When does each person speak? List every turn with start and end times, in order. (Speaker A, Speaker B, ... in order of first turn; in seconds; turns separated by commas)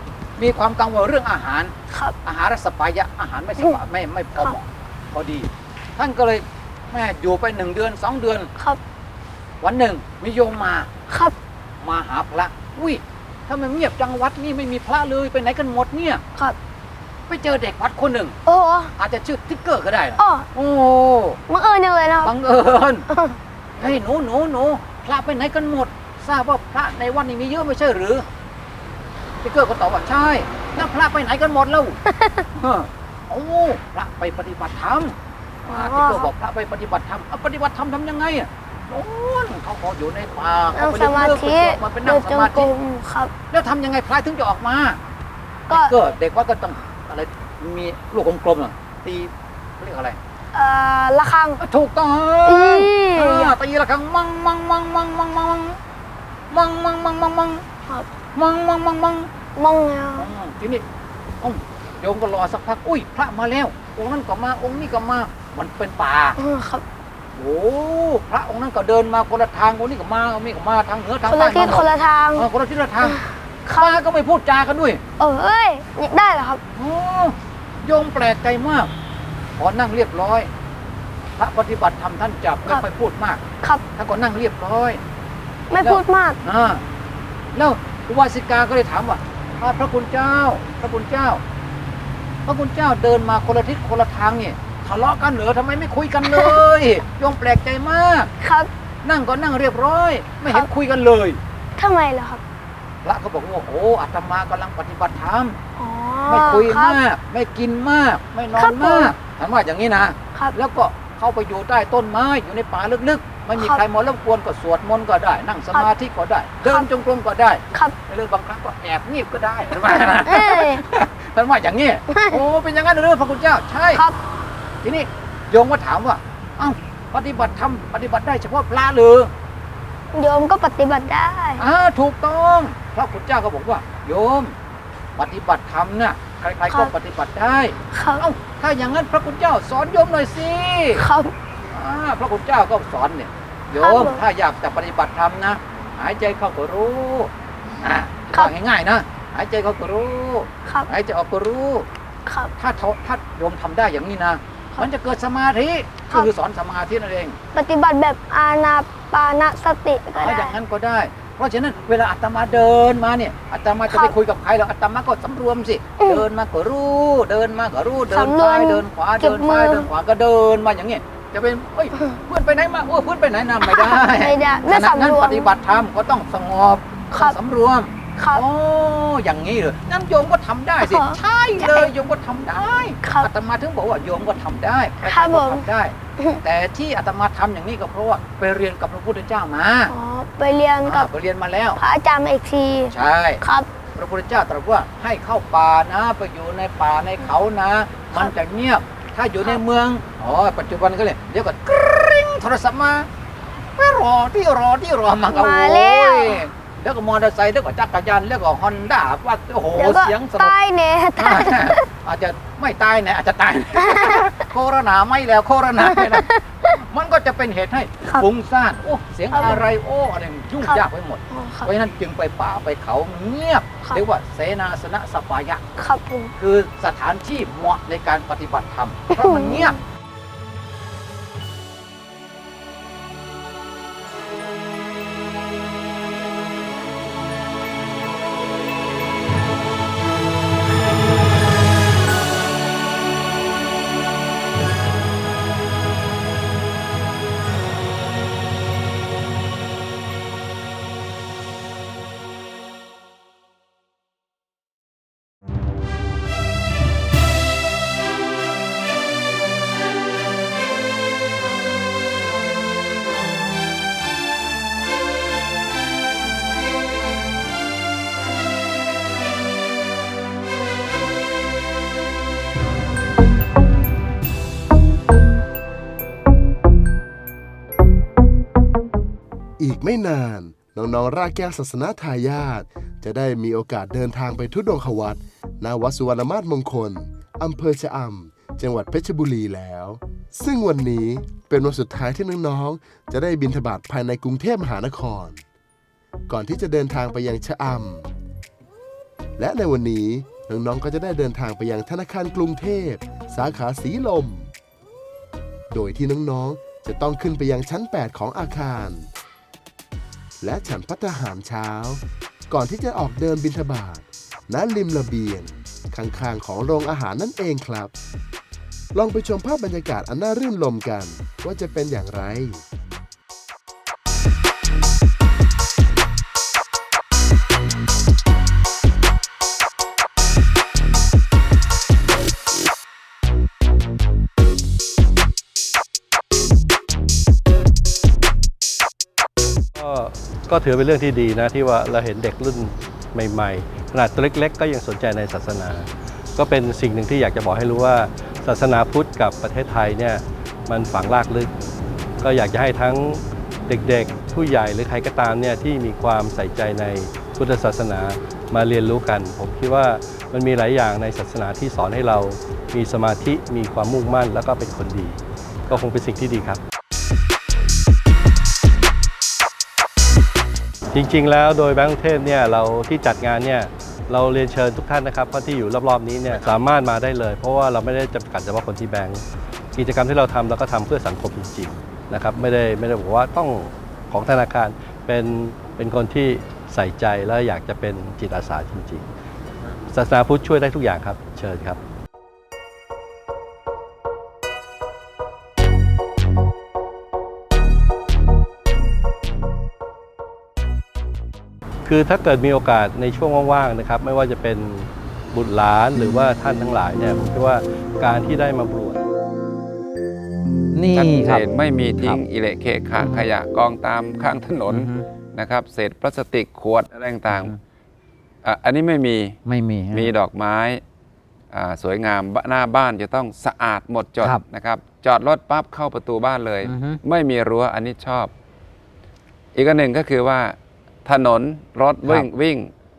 Speaker A: 0.4-1.7, Speaker A: 2.2-8.5, Speaker A: 9.6-10.9, Speaker B: 11.1-11.3, Speaker A: 11.8-16.2, Speaker A: 17.3-18.4, Speaker B: 18.5-18.9, Speaker A: 19.0-21.4, Speaker B: 20.2-20.5, Speaker B: 21.5-22.3, Speaker A: 22.2-23.1, Speaker B: 23.1-23.4, Speaker A: 23.8-28.2, Speaker A: 29.4-32.0, Speaker B: 32.1-32.5, Speaker A: 32.6-35.1, Speaker A: 35.7-42.7, Speaker B: 35.7-36.3, Speaker B: 40.8-43.3, Speaker A: 43.5-45.0, Speaker A: 45.7-50.2, Speaker B: 50.5-51.6, Speaker A: 51.6-55.8, Speaker B: 52.5-53.5, Speaker A: 56.5-57.6, Speaker A: 58.4-59.3, Speaker B: 59.6-60.3, Speaker A: 60.2-60.8, Speaker A: 61.4-66.4, Speaker B: 66.4-66.8, Speaker A: 67.4-73.2, Speaker B: 71.3-72.5, Speaker B: 73.0-74.0, Speaker A: 73.7-75.0, Speaker B: 75.2-76.6, Speaker A: 76.7-78.9, Speaker A: 79.6-80.5, Speaker A: 81.4-83.4, Speaker A: 84.0-85.0, Speaker B: 85.7-86.4, Speaker A: 85.8-86.8, Speaker A: 87.5-91.4, Speaker A: 92.5-98.3, Speaker B: 96.2-96.6, Speaker B: 98.4-98.7, Speaker A: 99.0-101.4, Speaker B: 101.8-102.4, Speaker A: 103.0-105.6, Speaker B: 105.8-107.0, Speaker A: 106.3-124.0, Speaker B: 108.6-109.1, Speaker B: 120.3-120.8, Speaker B: 122.1-122.4, Speaker A: 124.8-129.3, Speaker B: 130.1-131.6, Speaker A: 131.6-134.6, Speaker A: 135.2-141.0, Speaker B: 137.9-138.2, Speaker B: 141.0-141.3, Speaker A: 141.7-151.9, Speaker B: 143.7-144.2, Speaker B: 152.3-152.5, Speaker A: 152.6-157.4, Speaker B: 157.6-160.5, Speaker A: 160.1-189.9, Speaker B: 166.0-166.3, Speaker B: 168.1-169.9, Speaker B: 173.6-175.5, Speaker B: 178.2-178.4, Speaker B: 180.8-181.9, Speaker B: 183.0-183.3, Speaker B: 185.0-185.7, Speaker B: 189.9-191.1, Speaker A: 190.8-191.8, Speaker B: 191.8-193.7, Speaker A: 192.9-193.4, Speaker A: 193.9-203.1, Speaker A: 203.8-210.6, Speaker B: 205.3-206.4, Speaker B: 209.8-211.8, Speaker A: 211.2-225.6, Speaker B: 213.8-214.3, Speaker B: 215.9-216.8, Speaker B: 219.3-219.7, Speaker B: 220.6-221.7, Speaker B: 225.8-226.3, Speaker A: 226.4-229.8, Speaker B: 229.1-229.6, Speaker C: 279.6-295.4, Speaker C: 296.3-298.1, Speaker C: 299.4-304.5, Speaker C: 305.7-309.1, Speaker C: 310.4-317.9, Speaker C: 318.9-322.6, Speaker D: 339.8-351.5, Speaker D: 352.2-366.6, Speaker D: 370.9-379.2, Speaker D: 379.7-389.1, Speaker D: 389.9-391.8, Speaker D: 401.9-409.0, Speaker E: 410.7-411.4, Speaker F: 410.9-417.5, Speaker E: 413.0-413.3, Speaker E: 414.7-415.1, Speaker E: 417.3-417.6, Speaker F: 418.4-419.4, Speaker E: 419.5-420.1, Speaker F: 419.9-420.8, Speaker F: 421.5-428.3, Speaker E: 426.6-427.0, Speaker F: 429.6-432.7